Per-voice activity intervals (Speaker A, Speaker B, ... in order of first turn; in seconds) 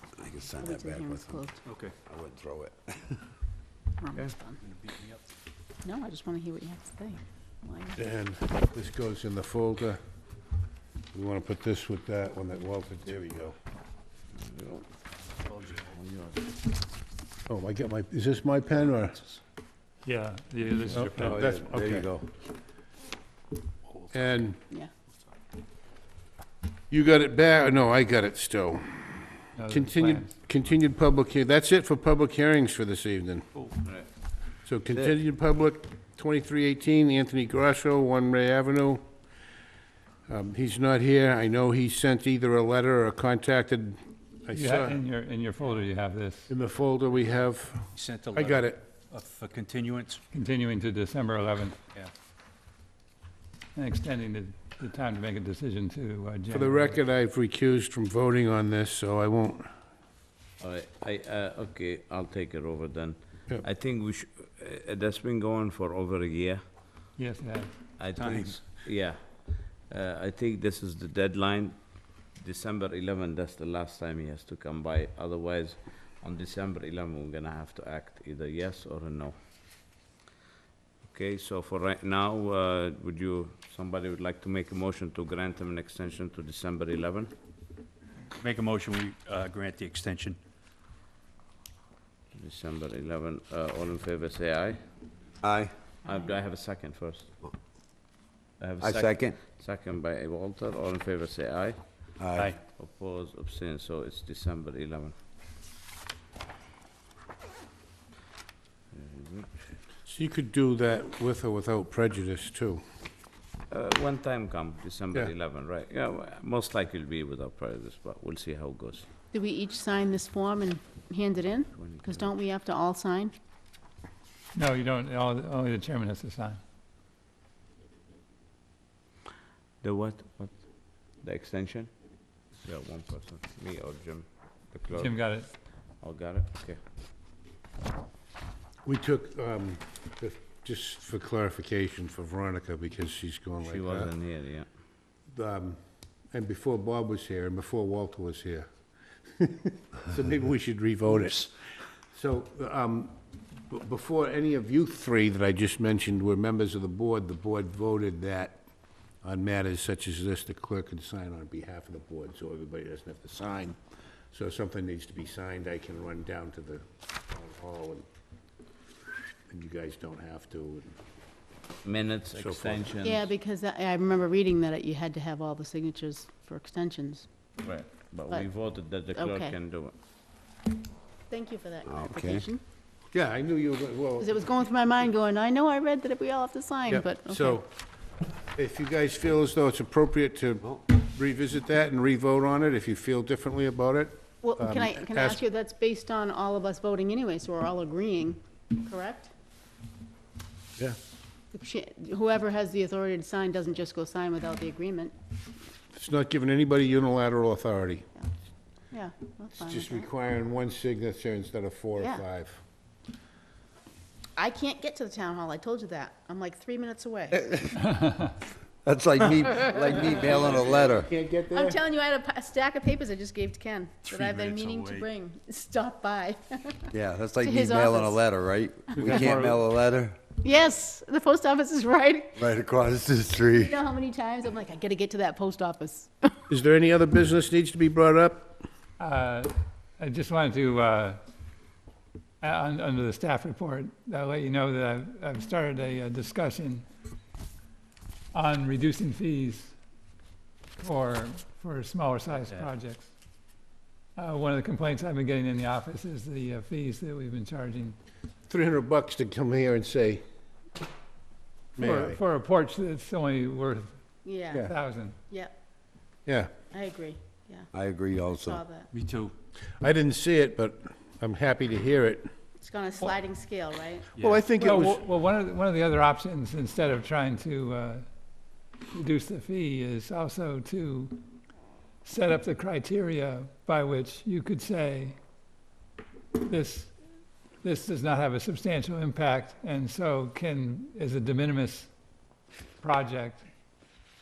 Speaker A: 0.2-1.4, 2.0-3.2, 21.2-22.3, 95.4-95.7, 98.8-99.4, 102.2-102.5, 181.8-182.5, 218.8-221.1, 226.9-230.2, 232.3-233.8, 267.7-268.6
Speaker B: 0.6-1.6, 4.0-4.6, 5.8-8.0, 119.3-123.3, 173.0-177.3, 179.1-179.6, 181.3-182.6, 184.2-187.6, 194.4-199.3, 201.5-205.1, 208.9-210.1, 212.0-212.2, 214.4-217.5, 221.5-228.2, 229.0-229.4, 230.4-232.4, 233.5-236.3, 264.2-264.7, 266.7-267.7, 268.3-268.9, 272.6-274.1
Speaker C: 8.0-10.0, 11.1-13.6, 17.5-19.2, 20.9-22.1, 24.1-24.6, 26.9-33.5, 34.6-39.0, 40.3-45.0, 46.5-48.8, 56.5-59.7, 110.0-112.8, 138.8-144.1, 145.3-148.7, 149.3-151.5, 152.1-153.2, 153.7-158.6, 159.2-163.8, 164.3-168.1, 169.5-170.9, 172.3-173.1, 183.1-184.4, 186.9-187.7, 188.5-195.4, 205.9-208.1, 209.6-212.6, 220.2-221.8, 229.0-229.4, 236.5-238.6, 258.5-260.2, 261.8-262.2, 266.2-266.5, 269.8-272.3, 274.2-275.0
Speaker D: 14.3-14.9, 15.5-16.6, 60.6-66.9, 68.0-79.8, 81.0-87.3, 92.3-94.8, 96.0-97.3, 98.6-102.1, 102.6-105.1, 108.9-109.5, 113.7-119.0, 121.7-122.3, 129.8-131.9, 132.5-135.1, 135.8-136.8, 143.6-144.7, 171.8-173.2, 177.6-179.9
Speaker E: 20.0-21.4, 29.6-30.4, 44.5-46.5, 50.3-51.8, 53.7-57.0, 67.2-68.5, 124.5-126.6, 134.9-135.5, 217.8-218.3, 239.0-241.2, 242.4-246.9, 248.3-249.8, 250.8-253.1, 254.2-258.0, 261.8-263.9, 264.6-265.2, 274.5-281.2, 282.0-285.2, 286.4-286.9, 287.6-291.9, 292.8-293.5
Speaker F: 48.0-48.4, 49.1-50.2, 88.4-90.4, 224.0-225.1, 268.9-269.3